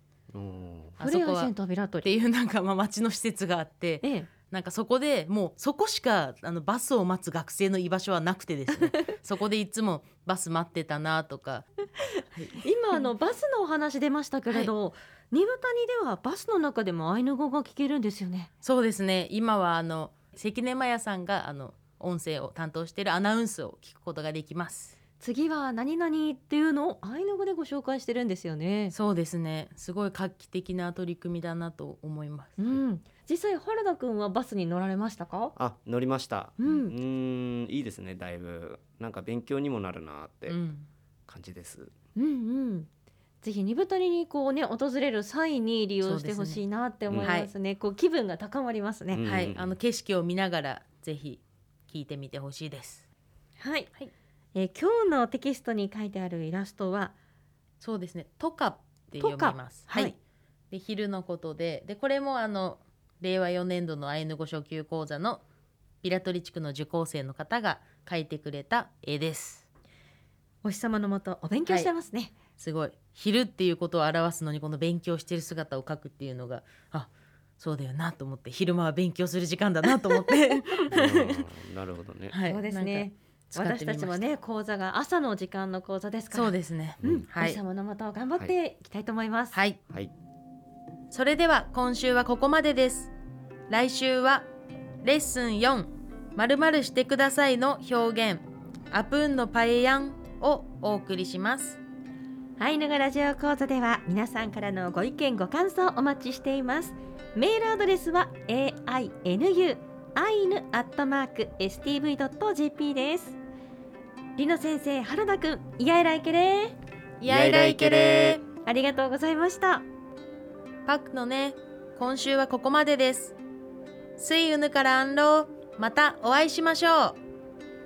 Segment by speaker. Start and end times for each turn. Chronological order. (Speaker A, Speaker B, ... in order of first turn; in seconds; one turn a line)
Speaker A: 0.3-0.9
Speaker B: 1.0-1.5
Speaker C: 1.0-2.1
Speaker B: 2.0-11.7
Speaker C: 4.0-4.3
Speaker B: 12.3-12.7
Speaker C: 12.6-18.5
Speaker B: 18.6-24.9
Speaker C: 25.2-28.9
Speaker B: 28.9-32.8
Speaker C: 32.6-35.5
Speaker A: 35.6-40.6
Speaker C: 36.6-36.9
Speaker B: 40.5-40.9
Speaker A: 41.3-41.9
Speaker C: 42.2-42.9
Speaker C: 43.4-49.2
Speaker B: 46.0-46.6
Speaker B: 47.2-47.5
Speaker A: 49.1-49.8
Speaker B: 49.2-53.1
Speaker C: 53.6-53.9
Speaker C: 54.5-57.1
Speaker B: 57.8-60.1
Speaker C: 59.2-60.1
Speaker B: 60.7-65.4
Speaker B: 66.0-69.7
Speaker C: 70.6-72.3
Speaker B: 71.7-71.9
Speaker B: 72.6-81.4
Speaker A: 80.9-82.4
Speaker B: 82.3-84.2
Speaker C: 82.4-89.6
Speaker B: 86.3-87.6
Speaker A: 87.0-87.3
Speaker B: 89.5-89.8
Speaker B: 91.1-93.1
Speaker B: 93.7-94.5
Speaker B: 95.0-101.8
Speaker C: 102.6-113.4
Speaker C: 114.4-116.8
Speaker B: 117.2-118.4
Speaker A: 117.2-118.4
Speaker C: 118.6-119.8
Speaker B: 120.9-123.3
Speaker B: 124.2-127.2